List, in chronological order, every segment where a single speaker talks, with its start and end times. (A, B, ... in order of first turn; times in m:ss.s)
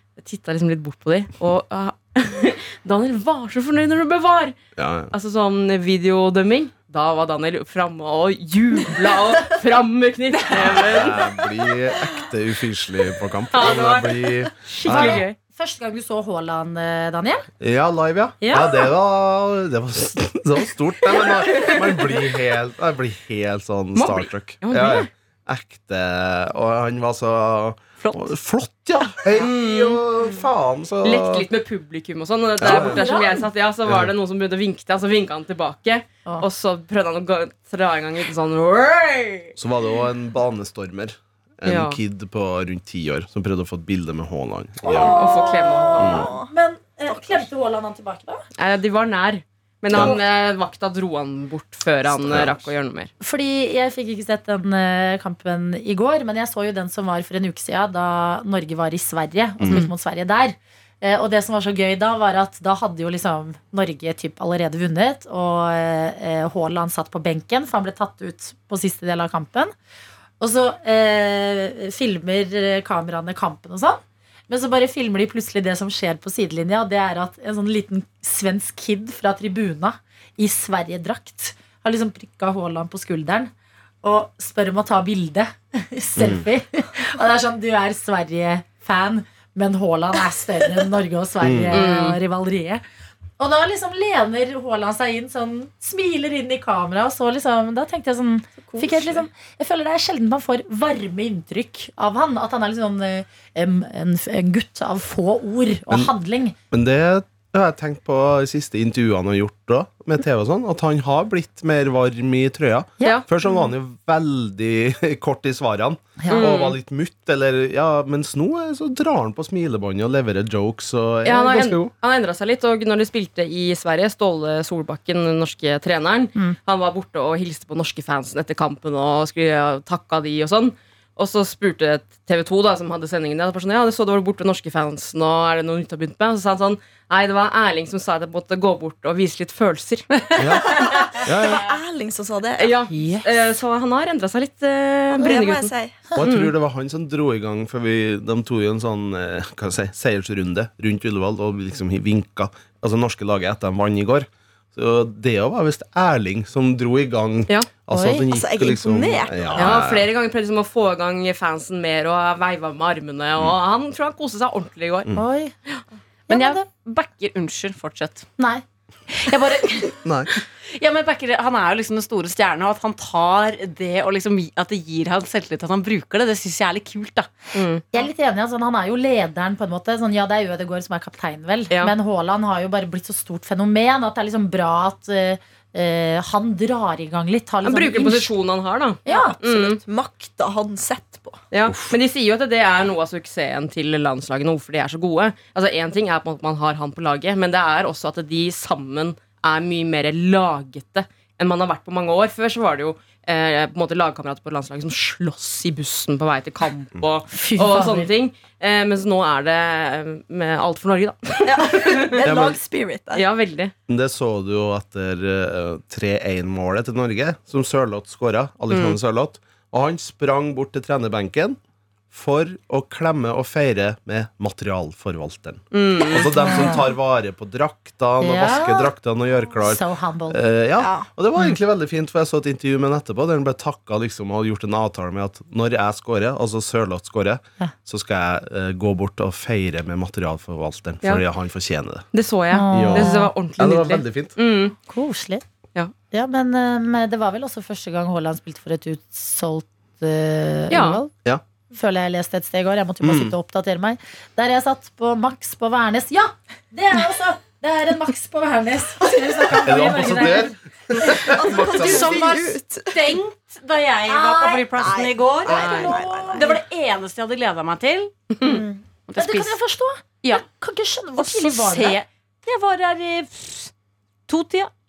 0:00.2-0:04.6 A
0:04.8-0:05.1 B
0:05.1-0:11.3 A
0:10.5-0:15.2 B
0:13.5-0:15.4 A
0:14.8-0:17.4 C
0:17.6-0:31.4 B
0:18.4-0:18.9 C
0:21.3-0:22.2 A
0:23.9-0:25.1 A
0:29.3-0:30.0 A
0:31.0-0:39.6 A
0:32.6-0:33.0 B
0:32.7-0:33.4 C
0:33.9-0:34.1 B
0:39.6-0:45.2 B
0:41.6-0:42.0 A
0:44.9-0:48.4 C
0:44.9-0:46.3 A
0:44.9-0:46.5 D
0:47.1-0:47.4 D
0:48.6-0:53.1 A
0:49.9-0:50.2 B
0:52.2-0:52.6 B
0:53.2-1:09.7 C
0:59.6-0:59.8 B
1:10.4-1:23.5 C
1:24.0-1:32.8 C
1:26.2-1:26.5 B
1:31.4-1:31.8 B
1:31.7-1:32.2 A
1:33.4-1:46.6 C
1:46.7-2:01.9 B
1:56.2-1:56.5 C
1:56.3-1:56.8 A
2:01.2-2:20.1 A
2:20.2-2:20.9 E
2:20.4-2:21.6 B
2:20.6-2:22.8 D
2:22.6-2:26.5 A
2:22.9-2:23.3 C
2:25.1-2:26.0 D
2:26.2-2:40.1 B
2:37.9-2:38.3 C
2:38.3-2:39.6 D
2:39.6-2:45.1 A
2:45.2-2:45.5 C
2:46.3-2:46.6 C
2:46.3-2:48.3 E
2:48.4-2:48.6 C
2:49.1-2:57.3 E
2:50.0-2:50.3 B
2:57.5-2:57.8 A
2:57.9-3:08.3 C
3:07.6-3:09.8 A
3:09.0-3:09.4 C
3:09.1-3:11.4 D
3:11.5-3:32.2 A
3:11.7-3:11.9 B
3:27.3-3:28.1 C
3:31.4-3:33.2 D
3:32.2-3:32.6 B
3:33.1-3:33.7 A
3:33.9-3:41.6 B
3:38.7-3:39.0 A
3:42.1-4:02.1 B
3:45.7-3:46.7 A
3:46.4-3:46.8 C
3:48.2-3:48.9 C
3:49.6-3:50.4 C
3:50.8-3:51.1 D
4:02.1-4:04.8 A
4:02.5-4:03.3 C
4:02.7-4:04.4 B
4:04.9-4:05.4 C
4:06.1-4:11.1 C
4:10.7-4:11.0 A
4:11.7-4:21.1 C
4:13.0-4:13.3 B
4:19.1-4:19.9 D
4:19.6-4:22.2 B
4:20.9-4:23.2 D
4:21.6-4:28.3 E
4:24.1-4:24.7 C
4:24.7-4:26.6 D
4:25.5-4:26.0 A
4:25.8-4:26.6 C
4:28.4-4:28.8 D
4:29.1-4:29.6 E
4:29.2-4:32.0 C
4:31.2-4:33.7 E
4:34.3-4:34.7 E